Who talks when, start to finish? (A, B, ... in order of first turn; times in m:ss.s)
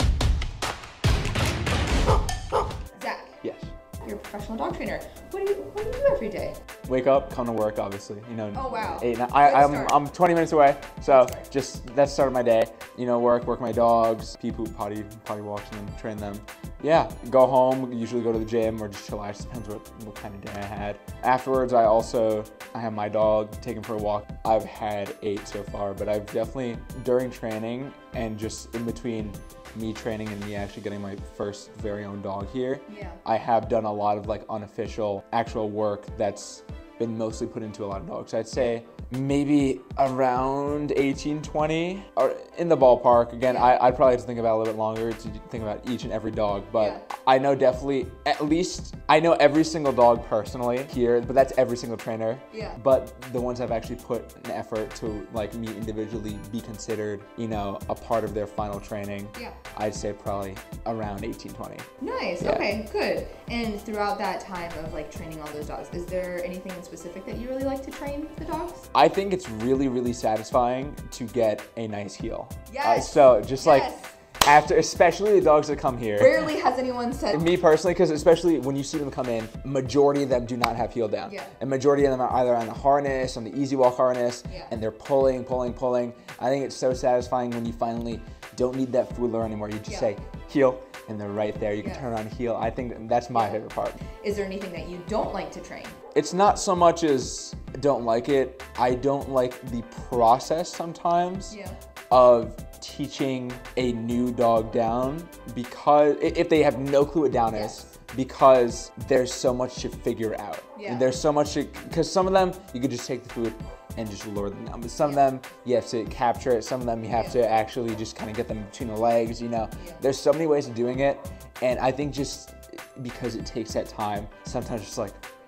0:03.0-0:03.4 A
0:03.4-0:03.7 B
0:04.0-0:06.6 A
0:06.9-1:01.9 B
0:08.6-0:10.0 A
0:11.0-0:11.5 A
0:32.9-0:33.2 A
0:43.4-0:43.8 A
0:46.8-0:47.1 A
0:52.5-0:52.8 A
1:02.0-1:08.9 A
1:02.4-1:02.7 B
1:08.9-1:16.5 B
1:12.7-1:14.1 A
1:16.2-1:17.5 A
1:17.3-1:34.0 B
1:21.3-1:21.5 A
1:24.5-1:24.8 A
1:31.8-1:32.1 A
1:33.3-1:33.6 A
1:34.2-1:36.0 A
1:36.1-1:41.6 B
1:41.5-1:41.8 A
1:42.1-2:05.2 B
1:47.5-1:47.9 A
1:50.8-1:51.1 A
1:57.1-1:57.4 A